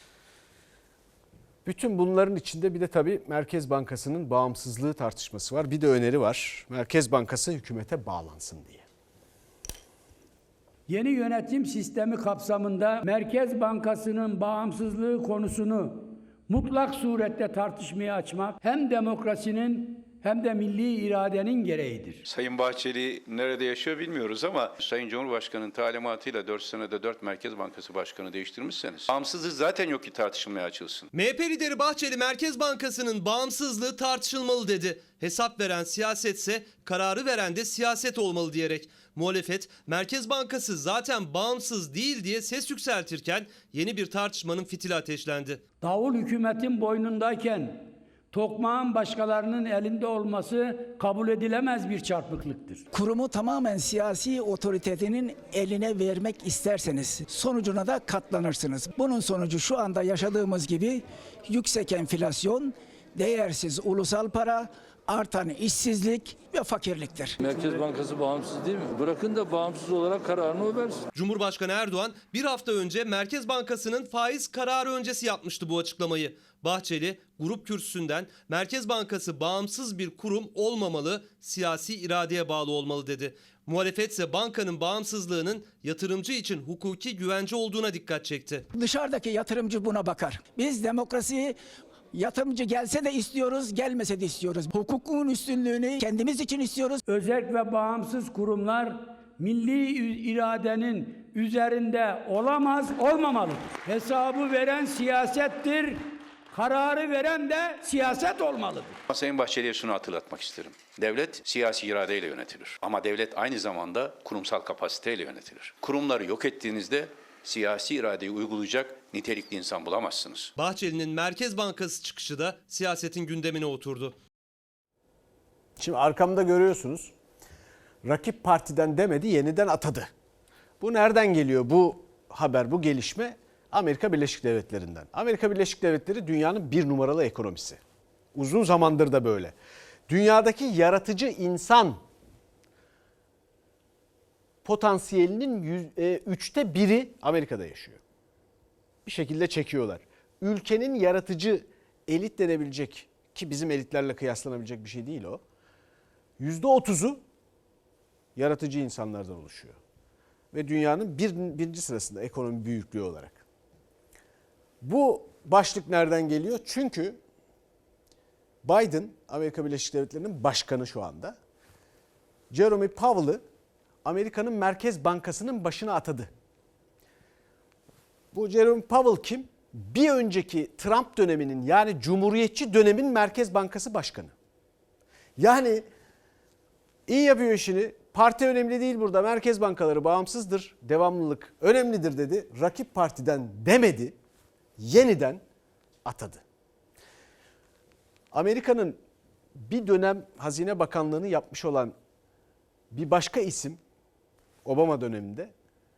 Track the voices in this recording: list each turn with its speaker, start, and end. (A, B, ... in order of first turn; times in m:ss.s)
0:01.6-0:08.8 A
0:10.9-0:22.2 B
0:22.2-0:31.1 C
0:31.1-0:45.6 D
0:45.8-0:52.8 B
0:52.9-1:07.4 E
1:07.4-1:11.0 F
1:11.1-1:28.6 D
1:28.7-1:31.6 E
1:32.1-1:37.0 E
1:37.0-1:49.0 B
1:49.1-2:00.5 C
2:00.6-2:04.1 D
2:05.8-2:07.1 A
2:08.0-2:10.1 A
2:10.8-2:17.8 A
2:18.3-2:19.6 A
2:20.1-2:22.0 A
2:24.6-2:28.0 A
2:29.1-2:35.4 A
2:36.4-2:37.2 A
2:38.4-2:39.8 A
2:40.5-2:43.4 A
2:44.8-2:47.2 A
2:48.6-2:51.4 A
2:52.5-2:53.4 A
2:54.0-2:56.3 A
2:58.3-3:04.3 A
3:05.4-3:05.8 A
3:07.1-3:14.2 A
3:14.8-3:15.4 A
3:16.0-3:16.4 A
3:18.3-3:19.0 A
3:19.6-3:21.9 A
3:22.9-3:23.8 A
3:24.6-3:25.5 A